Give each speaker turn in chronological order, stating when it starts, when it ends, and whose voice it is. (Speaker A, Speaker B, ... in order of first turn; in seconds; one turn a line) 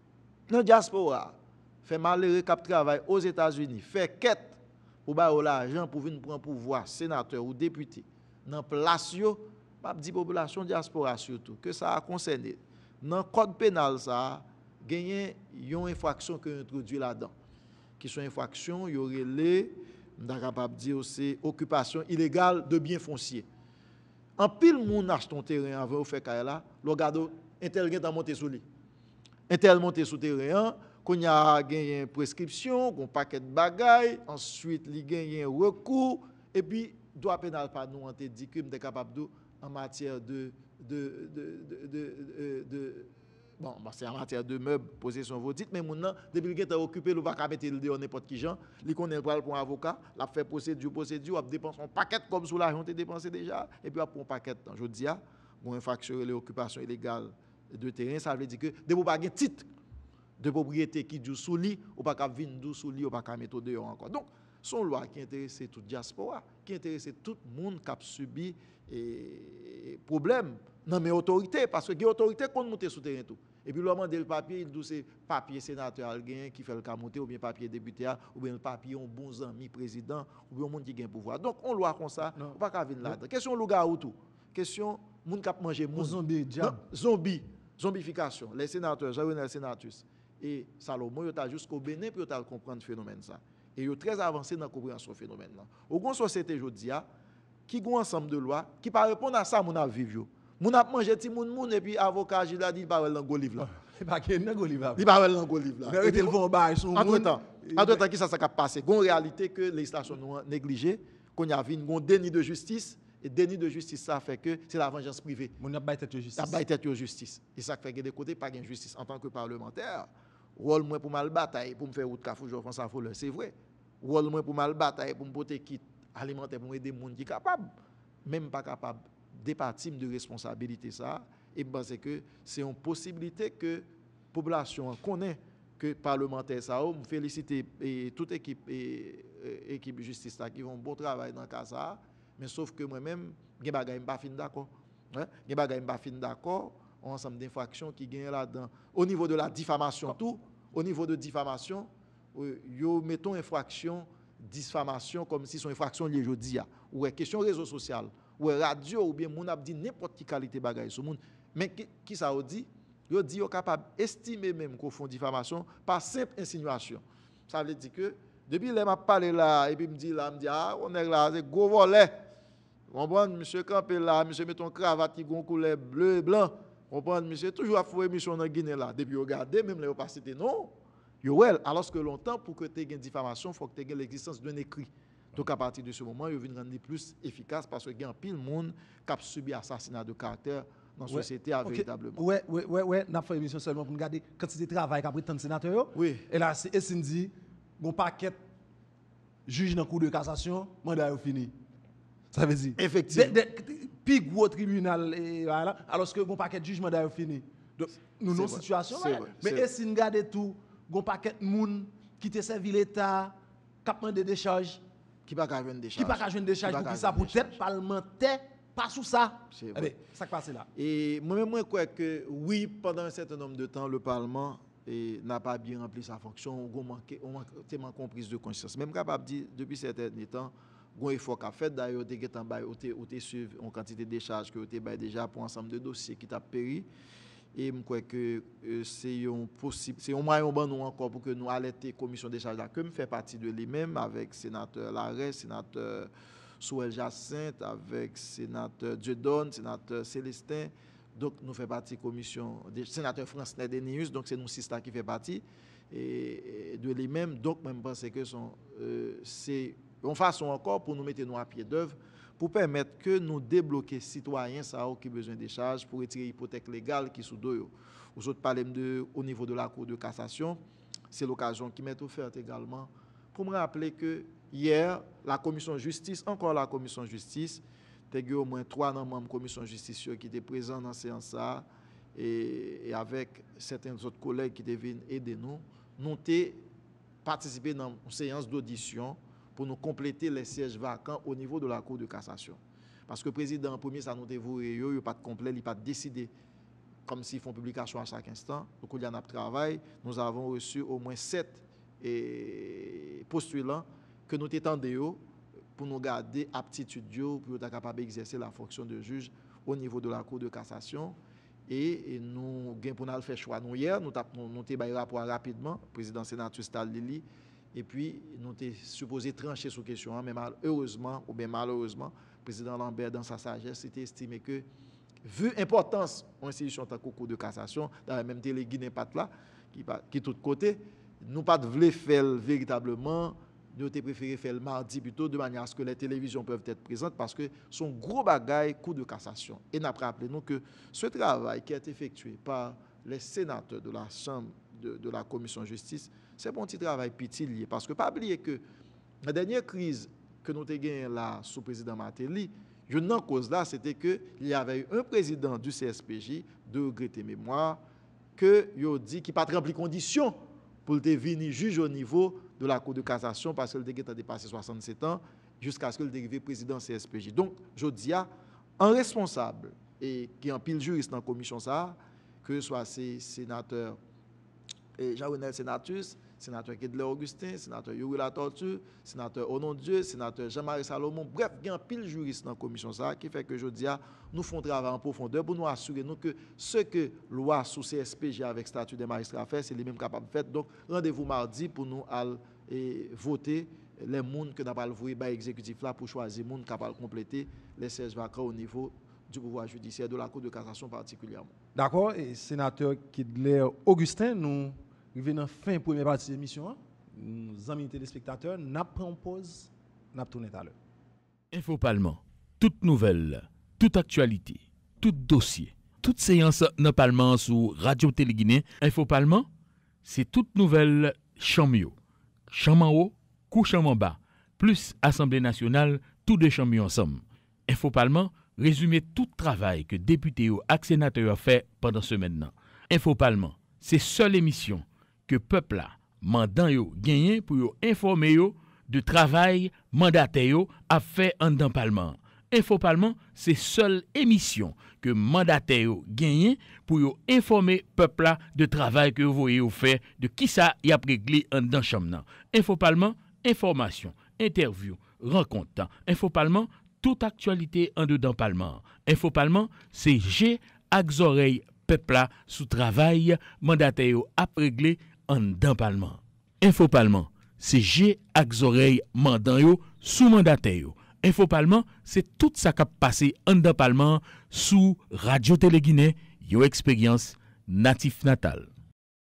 Speaker A: 0.5-17.3
Speaker A: 18.0-23.5
Speaker A: 24.4-28.6
Speaker A: 29.5-59.7
Speaker A: 60.4-97.0
Speaker B: 82.4-83.2
Speaker B: 86.0-86.8
Speaker A: 97.7-103.7
Speaker B: 103.6-105.1
Speaker A: 105.0-106.4
Speaker B: 105.8-108.0
Speaker A: 106.9-115.5
Speaker B: 115.6-116.6
Speaker A: 116.4-127.7
Speaker A: 128.2-172.2
Speaker A: 172.9-192.2
Speaker B: 191.1-198.4
Speaker A: 195.9-196.3
Speaker B: 199.5-201.6
Speaker B: 202.3-214.8
Speaker A: 202.8-203.4
Speaker A: 208.3-209.7
Speaker A: 215.3-217.6
Speaker B: 216.0-220.7
Speaker A: 219.5-219.9
Speaker A: 220.8-236.9
Speaker A: 237.6-270.6
Speaker A: 271.1-286.6
Speaker A: 287.2-296.3
Speaker A: 297.1-305.2
Speaker A: 305.8-311.2
Speaker A: 311.7-324.6
Speaker A: 325.2-348.6
Speaker A: 349.2-357.8
Speaker A: 358.4-368.3
Speaker A: 368.8-374.0
Speaker A: 375.0-401.5
Speaker B: 401.8-410.8
Speaker C: 411.5-419.5
Speaker C: 420.0-421.9
Speaker C: 422.5-478.7